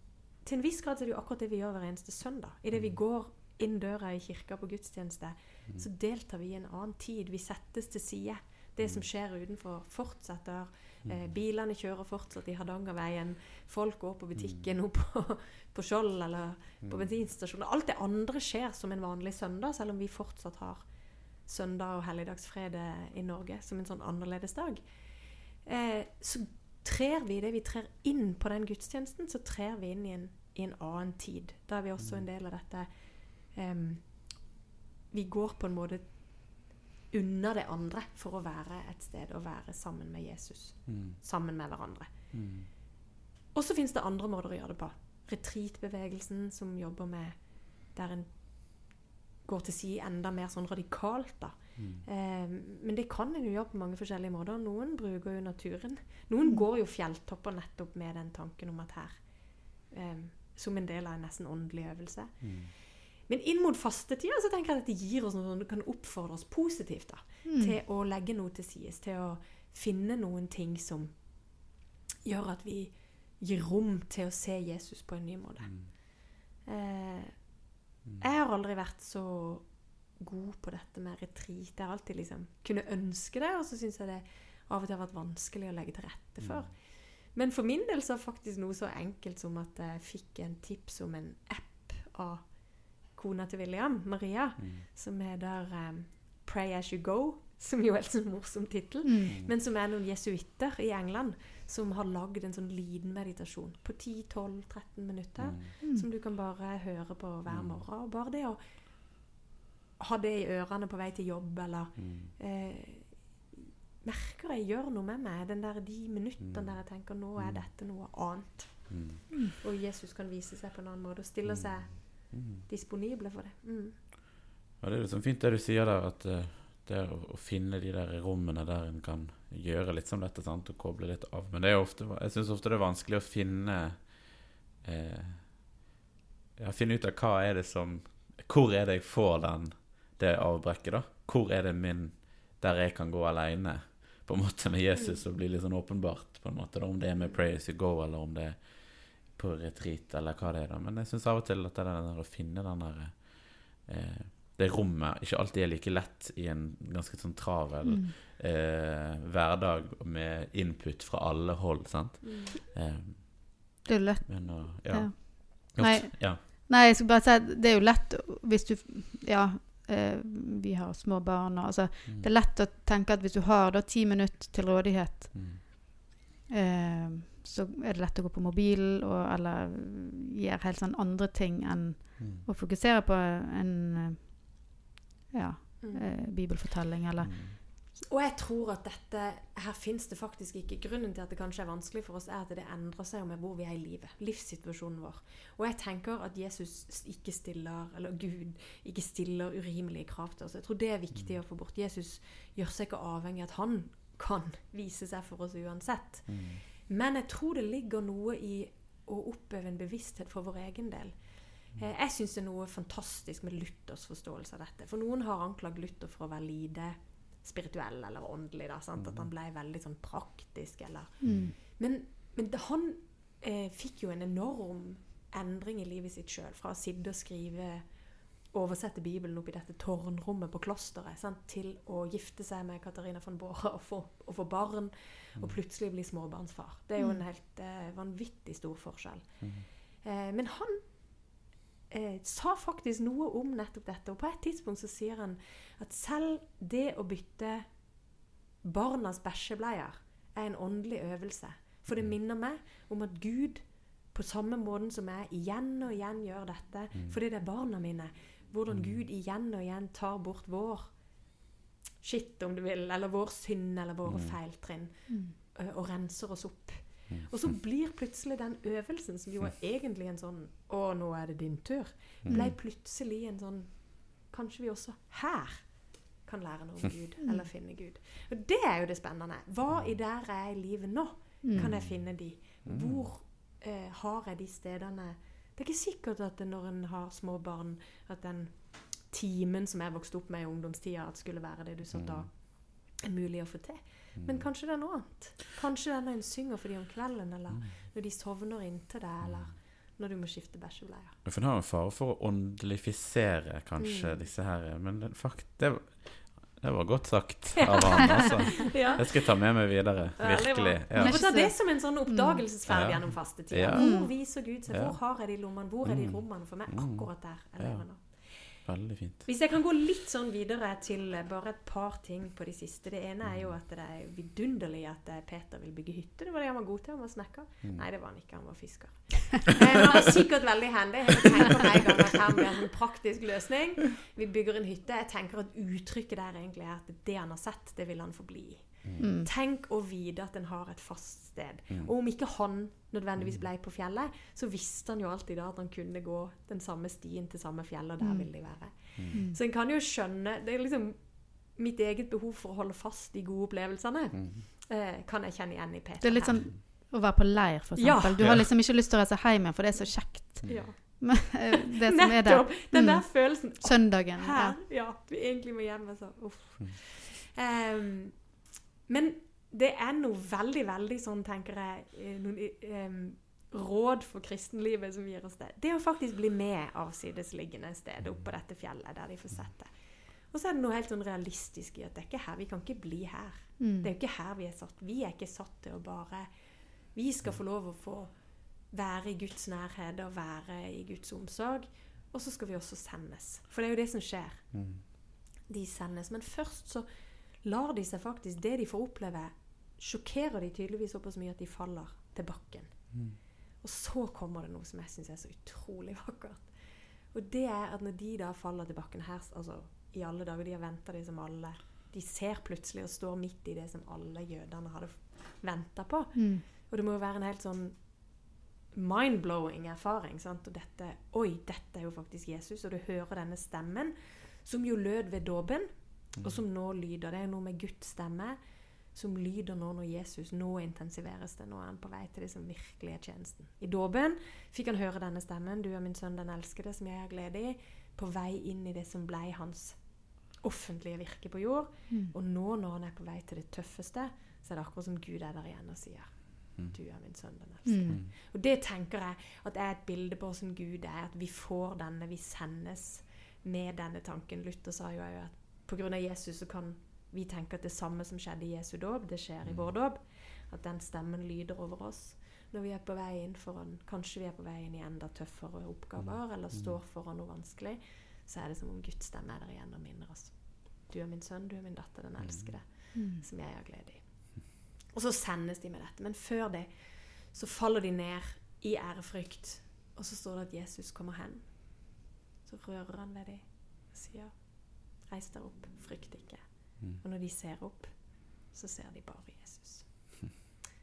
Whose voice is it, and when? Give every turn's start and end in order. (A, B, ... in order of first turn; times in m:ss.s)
0:00.4-0:34.5 A
0:02.7-0:03.0 B
0:08.8-0:09.1 B
0:11.0-0:11.4 B
0:16.8-0:17.1 B
0:32.0-0:32.2 B
0:35.1-0:42.1 A
0:40.9-0:41.2 B
0:42.3-0:42.7 B
0:43.5-1:49.2 A
0:51.8-0:52.0 B
1:02.4-1:02.7 B
1:07.4-1:07.8 C
1:26.4-1:26.7 B
1:34.6-1:34.8 B
1:39.0-1:39.3 C
1:45.4-1:45.7 B
1:47.5-1:47.8 B
1:50.0-2:04.0 A
1:52.0-1:52.3 B
1:56.4-1:56.8 B
1:57.4-1:57.7 B
1:58.9-1:59.2 B
2:01.5-2:02.6 B
2:04.8-2:15.7 B
2:16.6-2:46.4 B
2:25.0-2:25.2 A
2:37.8-2:38.1 C
2:42.2-2:42.5 A
2:43.8-2:56.0 C
2:55.3-2:55.6 B
2:56.5-3:04.8 C
3:02.2-3:02.4 B
3:05.3-3:07.4 C
3:05.8-3:06.2 A
3:07.2-3:07.6 B
3:07.9-4:21.2 A
3:21.1-3:21.4 B
3:26.3-3:26.6 B
3:39.0-3:39.3 B
3:41.2-3:41.5 C
3:41.2-3:41.5 B
3:57.0-3:57.2 C
3:59.4-3:59.7 B
4:18.7-4:19.0 B
4:22.0-5:01.2 A
4:24.0-4:24.4 B
4:25.1-4:25.3 C
4:27.1-4:27.5 B
4:32.2-4:32.5 B
4:32.3-4:32.6 C
4:37.2-4:37.5 C
4:41.4-4:41.7 C
4:41.5-4:43.1 B
4:51.9-4:52.3 B
4:54.2-4:54.5 B
4:59.2-4:59.5 B
5:01.2-5:11.4 B
5:03.8-5:04.2 A
5:07.6-5:09.3 A
5:10.2-5:18.7 A
5:11.0-5:12.4 C
5:12.7-5:15.0 B
5:13.7-5:14.1 C
5:15.8-5:19.2 B
5:19.2-5:56.6 A
5:23.2-5:23.6 B
5:39.0-5:39.3 C
5:43.2-5:43.4 B
5:48.0-5:49.4 C
5:49.0-5:49.2 B
5:54.1-5:54.4 B
5:56.0-6:04.6 C
5:57.8-5:58.3 A
5:58.2-5:58.5 B
6:00.4-6:00.7 B
6:00.4-6:34.6 A
6:23.6-6:23.9 C
6:34.5-6:34.8 B
6:35.5-8:10.4 A
6:42.9-6:43.2 B
6:56.1-6:56.4 C
7:27.6-7:28.0 C
7:39.4-7:39.7 B
7:46.0-7:46.8 B
7:52.2-7:52.6 B
7:52.9-7:53.2 C